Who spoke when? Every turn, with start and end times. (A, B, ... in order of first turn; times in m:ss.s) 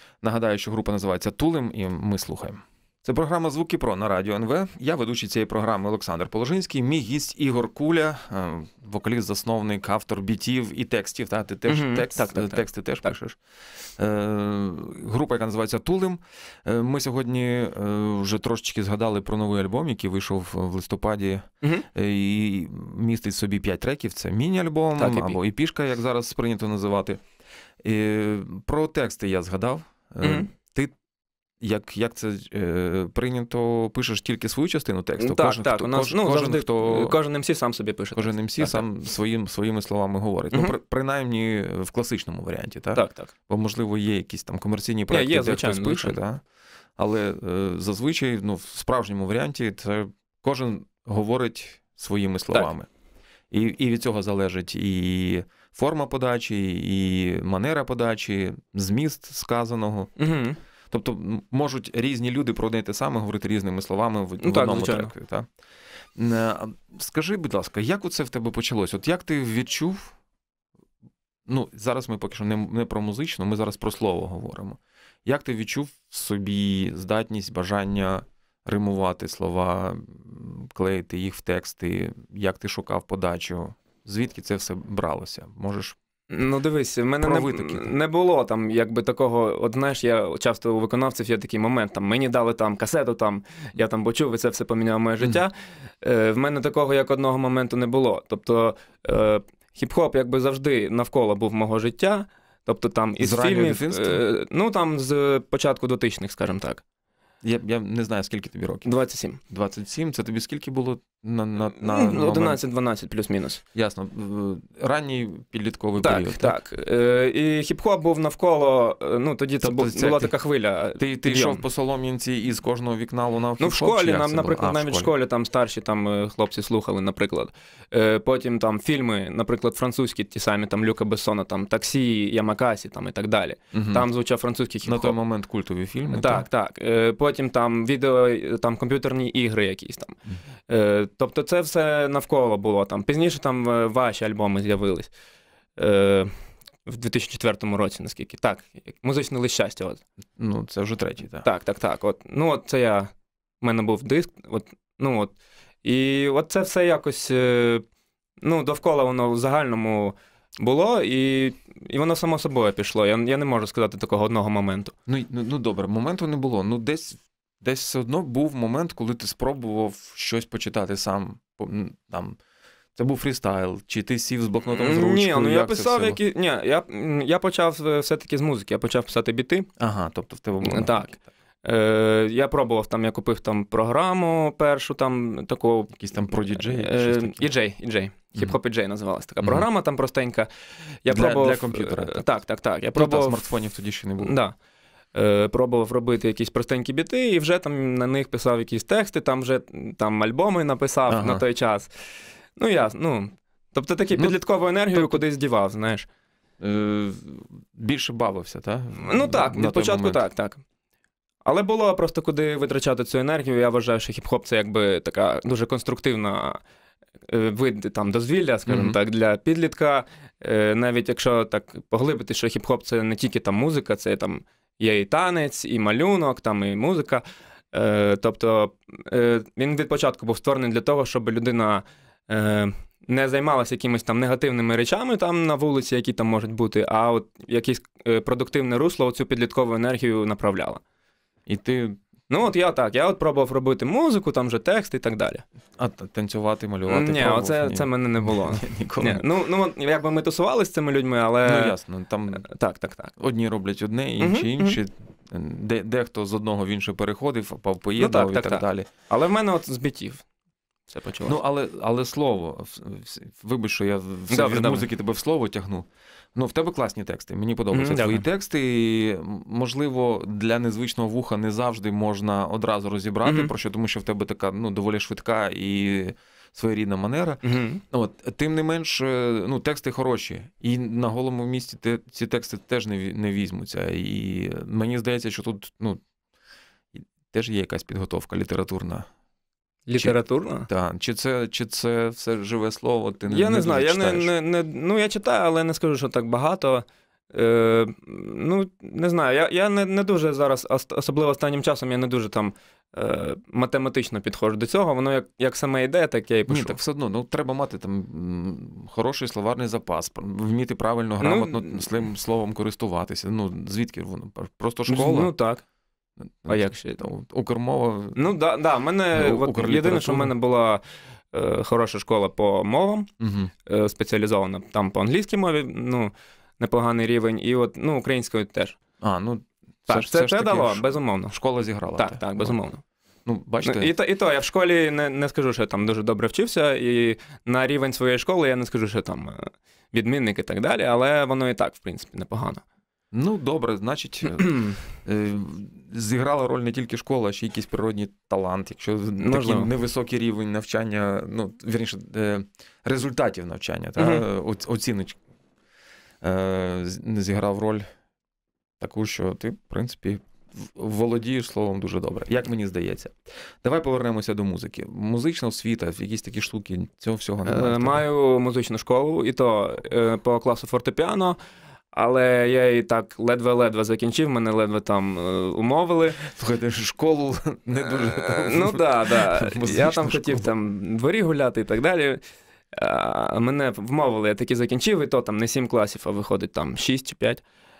0:00.2-0:13.4 A
0:11.7-0:13.1 B
0:14.0-0:27.2 A
0:25.0-0:25.4 B
0:27.8-0:30.9 A
0:30.2-0:30.5 B
0:31.6-0:37.2 A
0:35.2-0:38.8 B
0:38.1-0:46.4 A
0:42.9-0:43.3 B
0:45.1-0:46.2 B
0:47.0-0:52.9 A
0:53.5-1:00.1 A
1:00.2-1:00.6 B
1:00.9-1:05.5 A
1:04.4-1:05.1 B
1:06.1-1:10.1 A
1:11.5-1:26.0 A
1:26.3-1:46.8 B
1:27.2-1:27.9 A
1:43.2-1:44.2 A
1:47.4-1:48.9 A
1:48.8-1:49.4 B
1:49.5-1:52.6 A
1:51.8-1:53.6 B
1:53.7-1:56.6 A
1:56.0-2:01.6 B
1:59.6-2:00.3 A
2:01.0-2:05.1 A
2:03.6-2:15.2 B
2:13.7-2:14.0 A
2:14.8-2:16.4 A
2:16.1-2:25.1 B
2:25.8-2:26.3 B
2:26.8-2:30.0 B
2:30.4-2:31.4 A
2:31.4-2:37.8 B
2:38.4-2:44.9 B
2:45.1-2:52.4 A
2:53.0-2:56.2 A
2:54.7-2:59.7 B
2:59.8-3:01.2 A
3:00.6-3:01.1 B
3:01.6-3:10.5 B
3:05.9-3:07.5 A
3:09.4-3:09.6 A
3:11.0-3:13.4 B
3:11.1-3:12.2 A
3:12.9-3:14.4 A
3:14.2-3:14.5 B
3:15.1-3:21.9 B
3:21.1-3:21.4 A
3:22.6-3:26.1 B
3:24.9-3:25.2 A
3:26.6-3:30.2 A
3:29.0-3:30.6 B
3:31.4-3:36.6 B
3:37.3-4:00.8 B
3:38.7-3:39.0 A
4:01.5-4:02.0 A
4:02.3-4:05.4 B
4:05.8-4:09.2 A
4:06.9-4:11.8 B
4:11.4-4:12.4 A
4:12.4-4:13.1 B
4:13.2-4:18.9 A
4:14.2-4:14.8 B
4:18.0-4:20.2 B
4:20.9-4:21.4 B
4:21.2-4:46.0 A
4:24.3-4:24.9 B
4:27.7-4:28.2 B
4:33.2-4:33.5 B
4:37.4-4:37.8 B
4:47.0-4:49.1 A
4:49.9-4:50.7 B
4:50.0-4:54.3 A
4:53.3-5:06.8 B
5:06.5-5:15.3 A
5:11.2-5:11.8 B
5:14.9-5:15.6 B
5:16.2-5:18.2 A
5:16.5-5:17.0 B
5:18.2-5:23.1 B
5:19.1-5:20.3 A
5:23.2-5:23.5 A
5:23.6-5:28.8 B
5:29.0-5:32.6 A
5:29.9-5:31.4 B
5:32.0-5:32.8 B
5:33.2-5:33.9 A
5:33.6-5:42.6 B
5:43.1-5:55.2 A
5:44.4-5:44.8 B
5:49.2-5:49.7 B
5:54.0-5:54.2 B
5:56.2-5:57.9 A
5:58.8-6:08.0 A
6:07.4-6:11.4 B
6:11.9-6:16.2 B
6:16.2-6:20.5 A
6:17.9-6:27.4 B